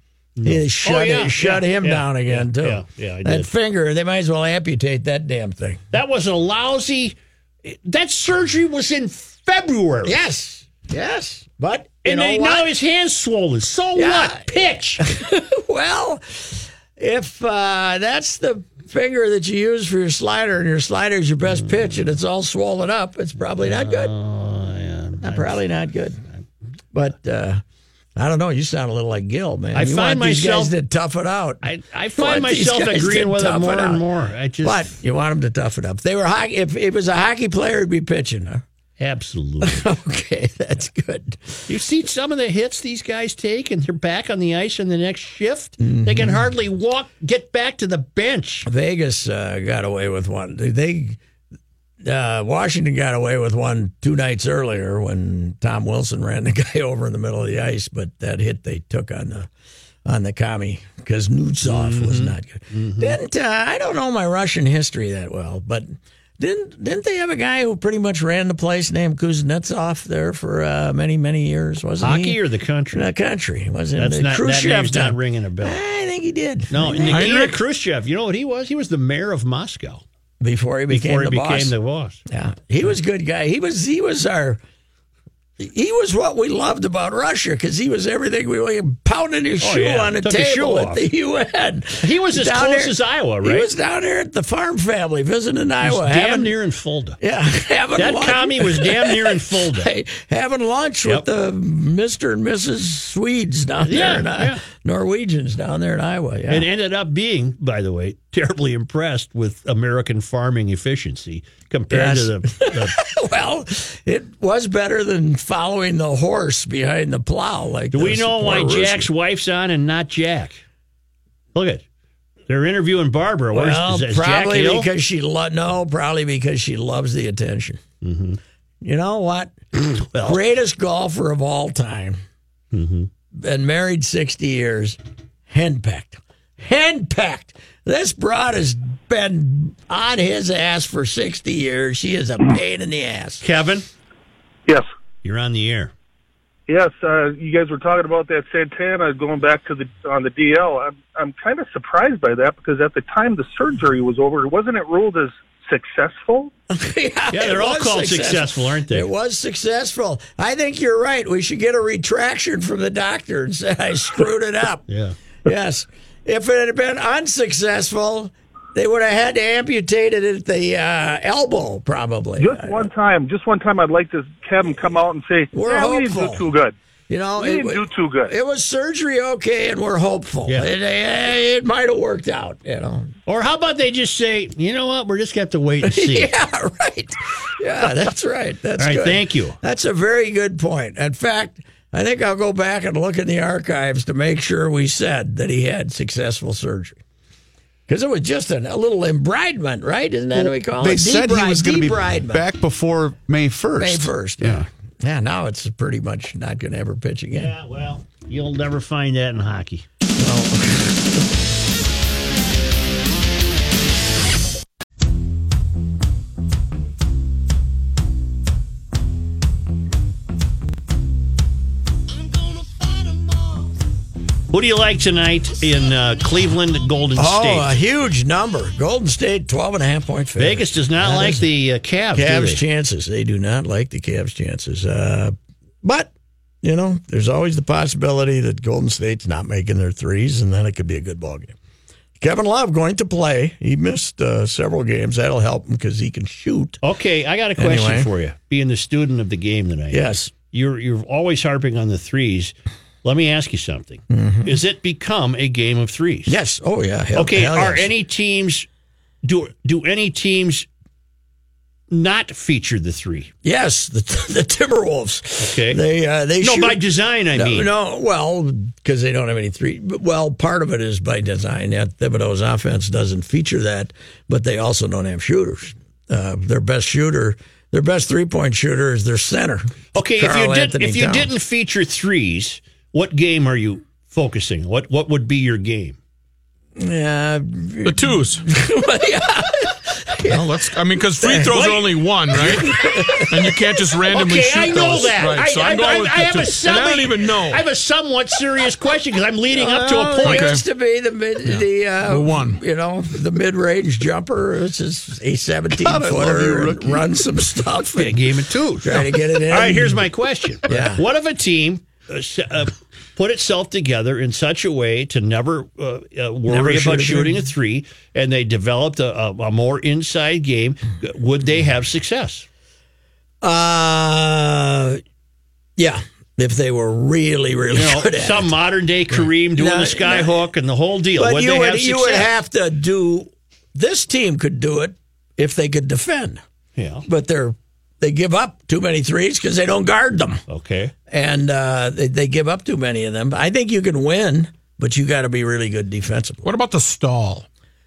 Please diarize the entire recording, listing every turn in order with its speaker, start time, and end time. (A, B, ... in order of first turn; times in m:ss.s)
0:00.4-0:03.5 A
0:00.4-0:05.8 B
0:05.9-0:10.2 A
0:10.0-0:12.7 B
0:12.0-0:15.0 A
0:13.9-0:24.1 B
0:23.6-0:25.6 A
0:25.2-0:26.2 B
0:26.9-0:27.6 B
0:28.2-0:34.0 B
0:29.7-0:30.7 A
0:31.6-0:34.9 A
0:34.6-0:38.6 B
0:39.0-0:39.8 A
0:39.6-0:41.7 B
0:41.7-0:48.7 A
0:45.8-0:46.4 B
0:48.6-0:51.2 B
0:52.0-0:59.5 B
1:00.0-1:12.4 B
1:01.6-1:03.2 A
1:12.0-1:13.1 A
1:12.9-1:17.4 B
1:14.0-1:15.8 A
1:16.7-1:20.0 A
1:17.1-1:17.6 C
1:20.4-1:21.7 B
1:20.9-1:22.2 A
1:22.3-1:24.6 B
1:25.6-1:36.6 B
1:29.6-1:31.0 A
1:32.0-1:33.7 A
1:35.8-1:37.2 A
1:37.2-1:46.7 B
1:38.0-1:39.9 A
1:43.8-1:44.6 A
1:46.5-1:53.0 A
1:51.9-1:59.1 B
1:57.9-2:00.6 A
2:01.5-2:01.8 A
2:02.5-2:04.9 A
2:03.5-2:07.8 B
2:08.0-2:08.4 A
2:08.8-2:09.5 B
2:09.8-2:10.4 A
2:10.1-2:12.2 B
2:12.7-2:13.1 A
2:13.3-2:23.4 B
2:23.4-2:23.9 A
2:25.2-2:25.9 A
2:26.7-2:36.5 D
2:36.7-2:44.8 B
2:37.3-2:39.1 A
2:44.9-2:45.1 A
2:45.4-2:52.9 B
2:52.4-2:56.7 D
2:55.5-2:56.5 B
2:57.1-3:03.1 B
2:57.4-2:58.3 D
3:03.2-3:06.3 A
3:05.8-3:17.0 B
3:08.8-3:09.6 A
3:17.9-3:22.4 B
3:20.8-3:24.6 E
3:23.8-3:27.5 B
3:27.3-3:29.8 A
3:30.2-3:31.2 B
3:44.5-3:47.7 A
3:47.2-3:51.5 B
3:50.4-3:52.6 A
3:52.1-3:56.1 B
3:56.6-4:01.5 B
4:02.2-4:06.8 B
4:06.8-4:16.4 A
4:07.6-4:08.1 B
4:09.9-4:10.3 B
4:14.1-4:14.6 B
4:16.3-4:17.9 B
4:17.1-4:18.7 A
4:19.2-4:20.7 A
4:21.9-4:23.3 A
4:23.4-4:26.8 B
4:25.4-4:25.8 A
4:26.4-4:27.7 A
4:27.3-4:41.3 B
4:39.9-4:46.0 A
4:46.8-4:50.6 B
4:47.8-4:48.4 C
4:50.3-4:57.6 C
4:51.2-4:51.7 B
4:51.5-4:51.8 A
4:52.3-4:53.6 B
4:54.1-5:00.5 A
4:59.5-5:08.3 B
5:00.2-5:00.6 C
5:01.5-5:02.6 C
5:05.8-5:07.1 E
5:08.0-5:22.4 A
5:08.8-5:10.1 B
5:10.6-5:11.0 B
5:16.5-5:17.5 B
5:23.4-5:25.0 B
5:25.8-5:28.5 B
5:27.7-5:32.3 A
5:29.5-5:30.4 B
5:31.1-5:36.4 B
5:36.8-5:37.0 A
5:37.0-5:40.4 B
5:40.5-5:40.9 A
5:41.1-5:46.4 B
5:46.4-5:47.4 C